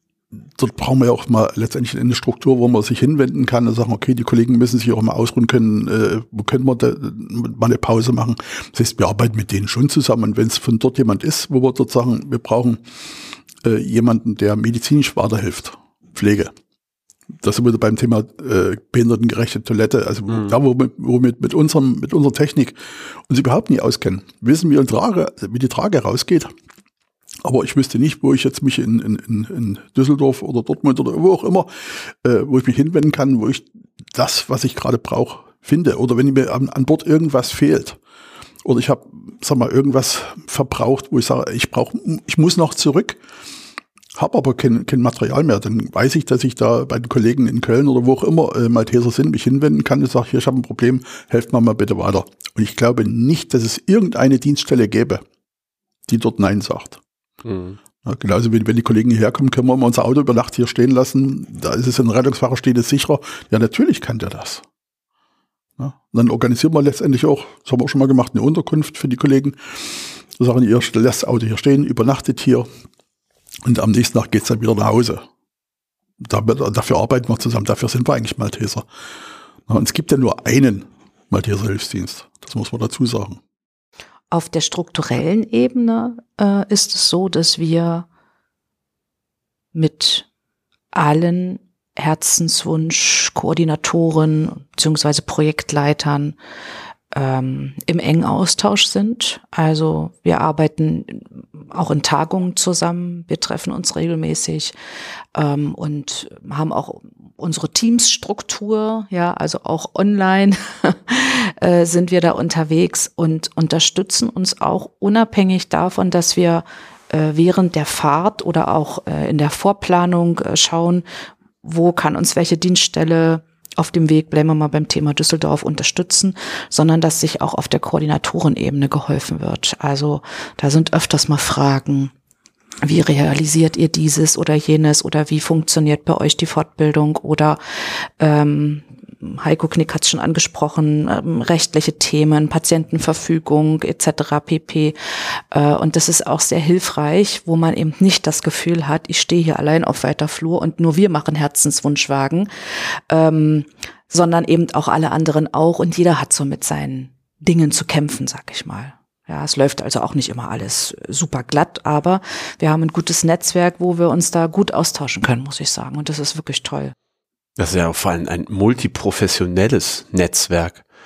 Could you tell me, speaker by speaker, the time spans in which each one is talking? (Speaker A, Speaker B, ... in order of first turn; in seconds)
Speaker A: 0.4-12.8, 13.6-16.5, 17.4-26.5, 27.4-38.0, 38.6-43.2, 44.2-55.2, 56.1-57.0, 58.0-64.6, 65.8-72.7, 73.7-75.2, 76.2-78.8, 79.7-83.4
Speaker B: 20.3-20.6, 57.5-57.8, 167.6-170.8
Speaker C: 84.3-88.1, 89.7-90.3, 90.9-96.4, 97.1-104.8, 105.3-121.0, 121.6-132.1, 132.8-166.9